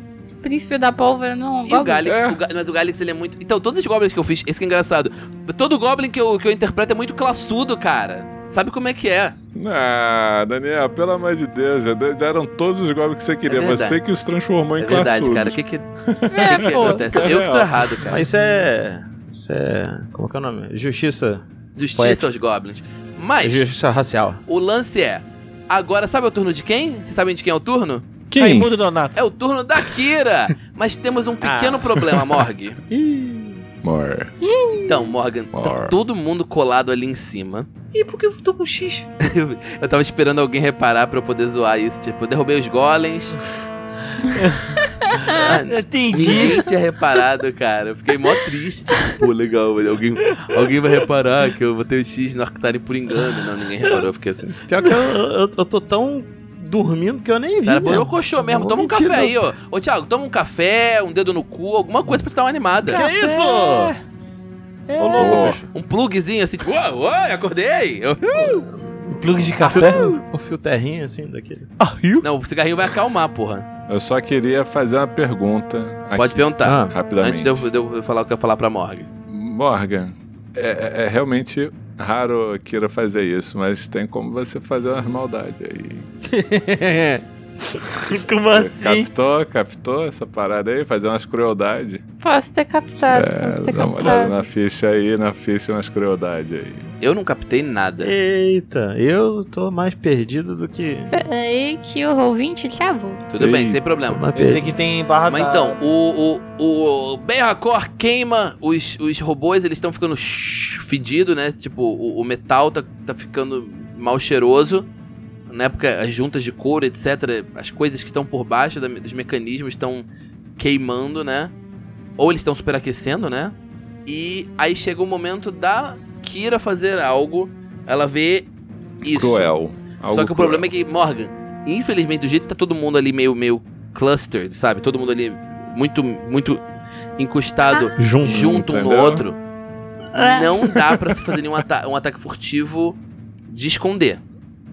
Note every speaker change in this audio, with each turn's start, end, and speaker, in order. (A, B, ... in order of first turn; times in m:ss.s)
0:00.4-0:02.1 A
0:01.6-0:09.4 B
0:02.0-0:02.4 C
0:09.6-0:18.1 C
0:13.5-0:14.0 B
0:14.8-0:18.2 B
0:16.3-0:17.1 A
0:18.1-0:22.3 D
0:21.8-0:23.7 B
0:23.4-0:24.4 D
0:24.5-0:28.0 B
0:28.3-0:28.7 C
0:28.4-0:29.2 E
0:29.1-0:32.8 B
0:31.4-0:31.8 E
0:32.9-0:33.6 D
0:33.8-0:34.3 C
0:34.4-0:35.1 A
0:34.8-0:37.7 B
0:35.5-0:36.0 C
0:37.9-0:39.1 E
0:39.2-0:43.4 B
0:44.2-0:46.7 E
0:45.2-0:45.4 A
0:45.3-0:54.6 B
0:54.6-0:59.5 D
0:54.8-0:55.1 E
0:57.6-1:03.0 B
1:02.9-1:04.0 E
1:02.9-1:04.0 D
1:04.9-1:05.6 E
1:05.0-1:05.7 D
1:05.2-1:05.6 C
1:05.3-1:08.7 B
1:08.4-1:10.1 E
1:08.5-1:11.7 D
1:09.6-1:10.1 B
1:11.8-1:12.3 E
1:12.2-1:13.7 B
1:13.9-1:17.7 C
1:16.2-1:19.1 B
1:16.6-1:17.0 D
1:19.3-1:26.1 C
1:26.3-1:28.2 D
1:28.1-1:29.1 E
1:28.5-1:32.0 C
1:32.2-1:34.4 A
1:33.1-1:36.9 C
1:37.0-1:38.1 B
1:38.0-1:41.2 D
1:41.1-1:43.2 A
1:43.3-1:44.3 B
1:43.4-1:43.8 C
1:44.1-1:44.7 D
1:44.4-1:45.8 E
1:45.3-1:54.9 B
1:55.5-2:00.1 B
2:00.6-2:01.5 B
2:02.2-2:03.6 B
2:04.1-2:08.5 B
2:09.0-2:09.5 B
2:09.0-2:10.7 C
2:10.1-2:16.6 B
2:17.2-2:19.4 B
2:18.0-2:18.5 D
2:18.2-2:19.3 C
2:20.2-2:24.2 B
2:20.2-2:20.5 A